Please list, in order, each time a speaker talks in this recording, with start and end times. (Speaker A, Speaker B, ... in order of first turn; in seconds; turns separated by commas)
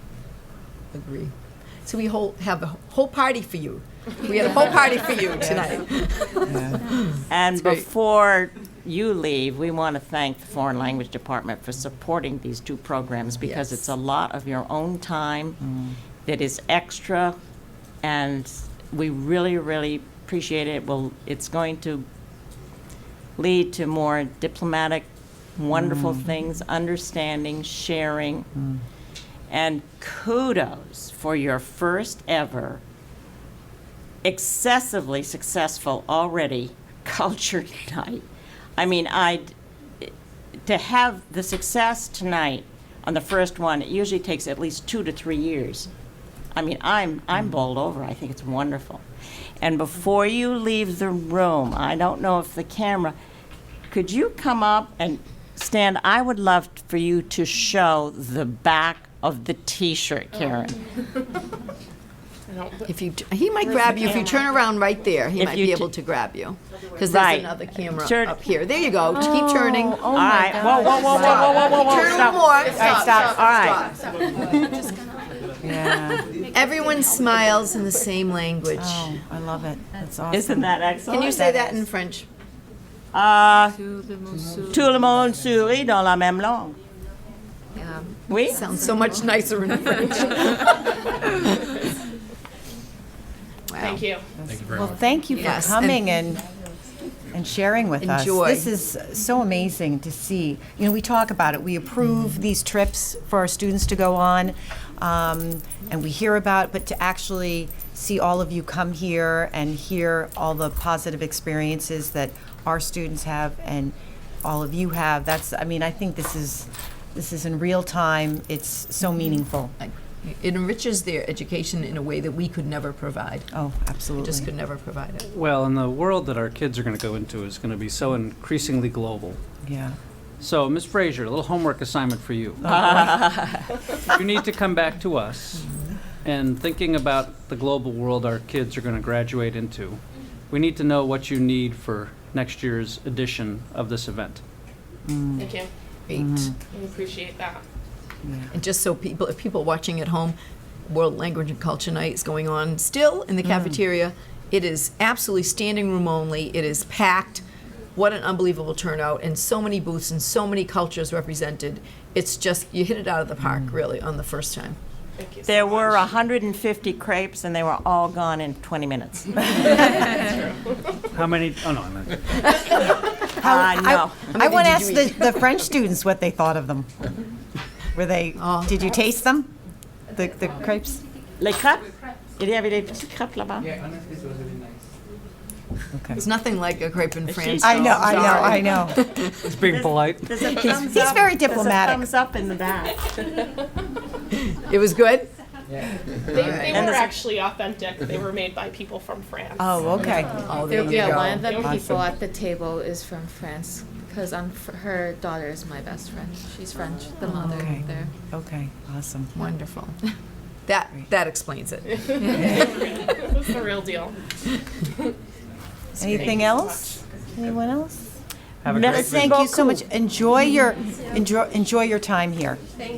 Speaker A: 0.9-1.3, Speaker A: 1.8-7.8, Speaker B: 6.5-6.8, Speaker C: 7.3-15.6, Speaker A: 13.4-13.8, Speaker B: 15.6-16.0, Speaker C: 16.3-17.4, Speaker C: 18.0-22.1, Speaker C: 23.4-28.5, Speaker B: 25.7-26.2, Speaker B: 28.6-28.8, Speaker C: 29.5-32.8, Speaker C: 34.2-38.2, Speaker C: 38.8-40.1, Speaker C: 40.7-45.9, Speaker C: 46.5-49.0, Speaker C: 49.6-53.2, Speaker C: 53.9-60.8, Speaker D: 62.5-62.9, Speaker A: 62.9-70.0, Speaker D: 63.6-64.5, Speaker C: 65.3-65.9, Speaker C: 67.0-68.4, Speaker B: 69.1-71.6, Speaker C: 70.1-73.9, Speaker A: 71.0-74.0, Speaker B: 72.6-73.5, Speaker B: 75.6-76.3, Speaker A: 76.5-79.1, Speaker B: 78.8-80.8, Speaker C: 80.3-81.4, Speaker A: 81.1-82.3, Speaker B: 81.3-81.8, Speaker C: 83.1-83.8, Speaker E: 83.7-84.9, Speaker C: 84.7-86.8, Speaker E: 87.7-89.3, Speaker C: 88.3-88.6, Speaker A: 88.4-91.4, Speaker A: 93.7-94.0, Speaker D: 93.8-94.3, Speaker B: 94.4-96.4, Speaker A: 95.3-96.0, Speaker B: 97.3-119.8, Speaker A: 98.0-98.7, Speaker A: 119.8-123.5, Speaker B: 123.5-124.5, Speaker A: 124.2-125.2, Speaker F: 125.2-129.4, Speaker B: 129.6-129.9, Speaker F: 130.4-133.1, Speaker B: 132.6-133.2, Speaker C: 132.7-133.7, Speaker F: 134.0-135.7, Speaker F: 136.2-144.4, Speaker B: 145.1-145.5, Speaker D: 145.4-145.7, Speaker A: 146.1-146.5, Speaker B: 146.1-146.5, Speaker D: 146.7-147.6, Speaker B: 148.2-148.5, Speaker A: 148.5-150.3, Speaker A: 150.9-164.8, Speaker B: 153.4-153.7, Speaker B: 163.5-163.7, Speaker D: 165.2-166.1, Speaker C: 165.4-170.3, Speaker D: 170.0-170.8, Speaker F: 171.1-172.6, Speaker C: 173.4-174.3, Speaker B: 173.4-176.9, Speaker A: 174.3-175.4, Speaker B: 177.9-179.5, Speaker A: 178.4-178.7, Speaker B: 180.1-181.0, Speaker C: 181.4-183.7, Speaker B: 185.9-186.2, Speaker A: 186.1-189.3, Speaker C: 187.2-188.8, Speaker B: 187.6-189.0, Speaker F: 189.3-190.8, Speaker C: 189.6-193.1, Speaker B: 190.7-192.1, Speaker A: 194.4-195.3, Speaker D: 196.3-199.7, Speaker A: 196.3-196.9, Speaker C: 196.7-197.2, Speaker B: 199.6-202.1, Speaker A: 200.0-201.5, Speaker E: 200.5-208.1, Speaker D: 201.5-201.8, Speaker B: 207.2-209.3, Speaker A: 209.3-210.0, Speaker A: 210.7-213.4, Speaker D: 212.5-214.2, Speaker B: 216.0-218.1, Speaker A: 216.0-216.4, Speaker D: 216.2-216.8, Speaker F: 218.6-219.4, Speaker C: 218.7-219.8, Speaker B: 218.8-222.6